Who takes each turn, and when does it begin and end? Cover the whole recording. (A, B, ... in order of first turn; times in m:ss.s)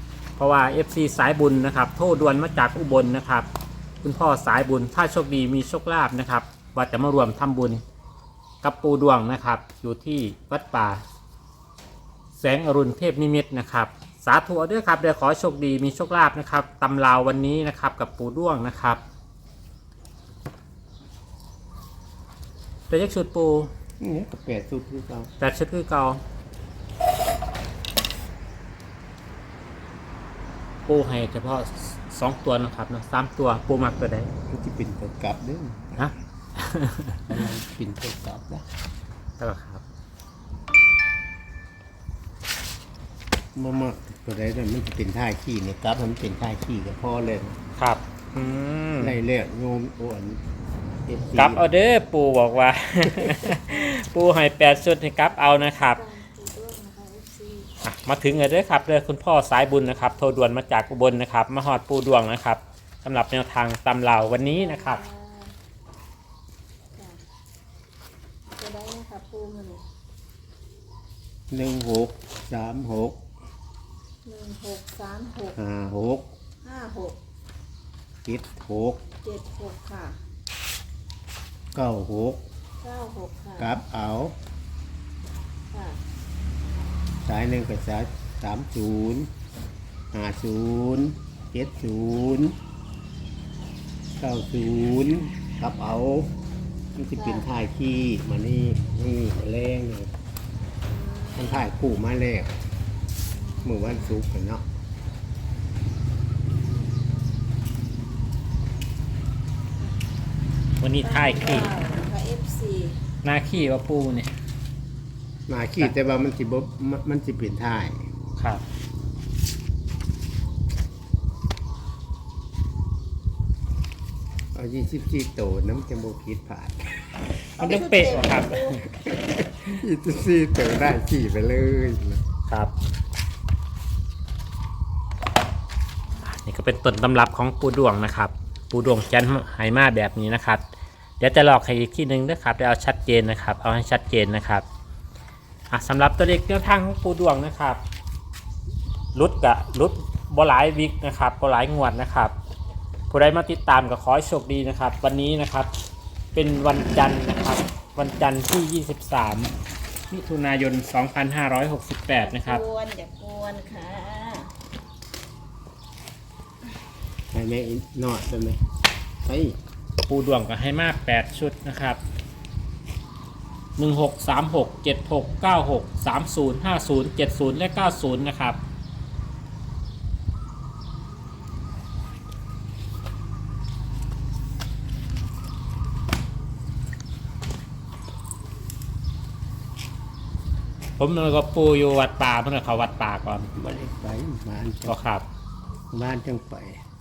0:00.4-0:03.5 A
0:04.0-0:07.8 A
0:08.6-0:11.0 A
0:12.4-0:19.0 A
0:22.9-0:23.7 A
0:24.0-0:25.3 B
0:25.4-0:26.2 A
0:30.9-0:34.3 A
0:34.5-0:36.2 B
0:36.0-0:37.2 A
0:37.3-0:38.7 B
0:39.4-0:39.8 A
0:43.6-0:47.6 B
0:47.8-0:49.2 A
0:49.0-0:50.4 B
0:51.1-0:51.7 B
0:51.4-0:56.0 A
0:53.7-0:53.9 C
0:55.4-0:57.7 C
0:57.8-1:05.0 A
1:04.5-1:05.5 C
1:08.6-1:09.8 C
1:11.5-1:13.2 B
1:14.2-1:15.6 C
1:15.6-1:16.3 B
1:16.6-1:17.2 C
1:18.2-1:19.0 B
1:19.2-1:20.2 C
1:21.7-1:22.4 B
1:22.8-1:23.8 C
1:23.6-1:24.4 B
1:25.7-1:26.0 C
1:27.2-1:29.3 B
1:30.1-1:32.6 B
1:34.2-1:36.3 B
1:37.0-1:40.1 B
1:37.2-1:37.5 C
1:40.9-1:41.7 C
1:41.3-1:42.6 B
1:43.3-1:44.2 C
1:43.6-1:44.6 B
1:50.8-1:51.7 A
1:51.0-1:53.0 C
1:53.2-1:54.3 A
1:55.5-1:58.0 B
1:58.4-1:58.6 A
2:04.5-2:07.3 B
2:07.6-2:08.8 C
2:07.6-2:08.8 A
2:08.8-2:12.2 B
2:12.5-2:12.7 A
2:16.2-2:20.6 A
2:21.2-2:24.6 A
2:25.7-2:27.8 A
2:29.2-2:32.3 A
2:33.1-2:35.7 A
2:36.4-2:39.5 A
2:40.1-2:42.6 A
2:42.1-2:44.5 C
2:47.3-2:48.6 B
2:49.2-2:49.6 B
2:50.1-2:52.0 A
2:53.8-2:58.6 A
3:11.0-3:13.5 A
3:13.6-3:15.0 B
3:14.9-3:15.2 A
3:15.9-3:16.8 B